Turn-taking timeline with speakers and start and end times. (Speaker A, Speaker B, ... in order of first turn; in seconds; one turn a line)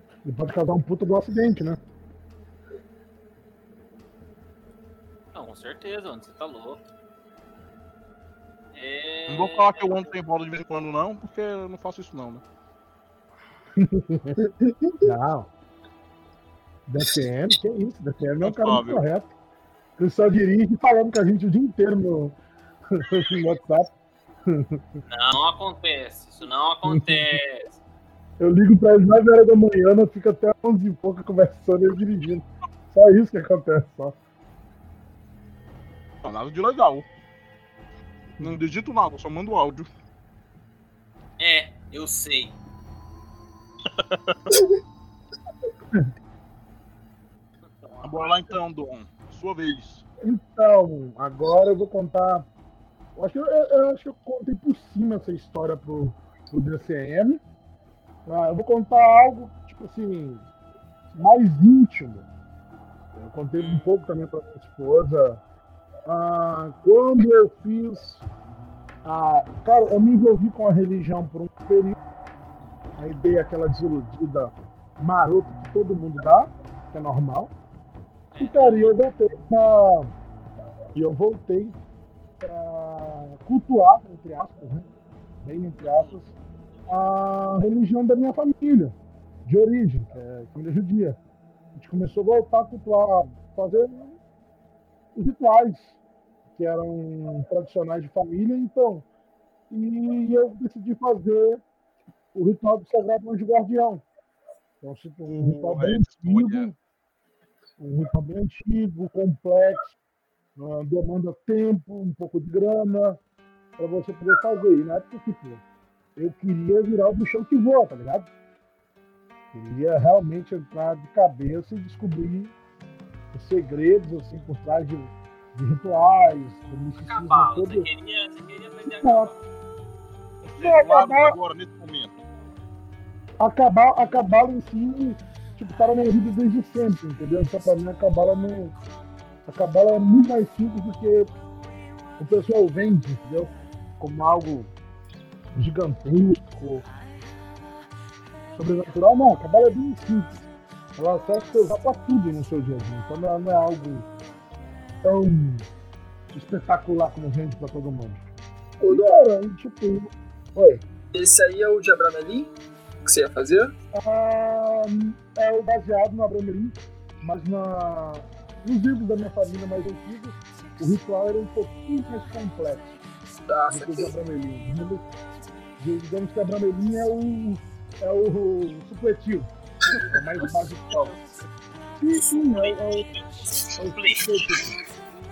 Speaker A: 0.2-1.8
Speaker B: 5.3-6.8
Speaker B: 8.7-10.1
Speaker C: 9.3-12.4
Speaker A: 13.8-14.4
Speaker D: 14.4-15.1
Speaker A: 15.0-15.5
Speaker A: 16.9-19.3
Speaker C: 18.4-19.0
Speaker A: 20.0-22.4
Speaker A: 22.9-23.9
Speaker A: 24.5-25.0
Speaker B: 25.1-27.8
Speaker A: 26.9-27.4
Speaker A: 28.4-34.2
Speaker C: 36.2-37.1
Speaker C: 38.4-39.9
Speaker B: 41.4-42.5
Speaker C: 43.9-44.4
Speaker B: 47.8-48.1
Speaker C: 48.0-50.0
Speaker A: 50.2-52.5
Speaker A: 53.2-57.4
Speaker A: 58.3-60.5
Speaker A: 61.1-62.3
Speaker A: 63.1-65.4
Speaker B: 63.6-63.9
Speaker A: 66.1-68.2
Speaker A: 69.0-72.0
Speaker A: 73.0-77.5
Speaker B: 78.3-78.9
Speaker A: 78.4-80.1
Speaker A: 80.9-81.8
Speaker A: 82.4-84.9
Speaker A: 85.4-86.3
Speaker B: 85.9-86.2
Speaker A: 86.9-89.0
Speaker A: 89.5-91.2
Speaker A: 91.8-94.2
Speaker A: 95.2-95.9
Speaker A: 96.6-99.1
Speaker A: 99.7-101.6
Speaker A: 102.3-104.0
Speaker A: 104.8-106.7
Speaker C: 105.3-106.7
Speaker A: 107.8-110.0
Speaker A: 110.6-113.2
Speaker A: 113.8-115.6
Speaker A: 116.2-118.3
Speaker A: 119.5-122.5
Speaker A: 123.3-127.9
Speaker B: 127.1-129.4
Speaker A: 128.9-129.3
Speaker C: 130.5-132.2
Speaker A: 130.6-131.4
Speaker A: 133.4-138.8
Speaker A: 139.5-141.3
Speaker A: 142.2-144.7
Speaker A: 145.5-146.9
Speaker A: 148.6-154.1
Speaker A: 155.0-155.7
Speaker A: 156.3-158.2
Speaker D: 158.8-159.2
Speaker A: 158.9-160.8
Speaker D: 161.1-162.5
Speaker D: 163.1-163.7
Speaker A: 163.9-173.0
Speaker D: 173.5-174.1
Speaker A: 173.7-175.1
Speaker A: 175.8-179.5
Speaker A: 180.1-181.2
Speaker B: 180.9-181.4
Speaker A: 182.0-183.1
Speaker B: 182.2-184.5
Speaker A: 183.8-184.8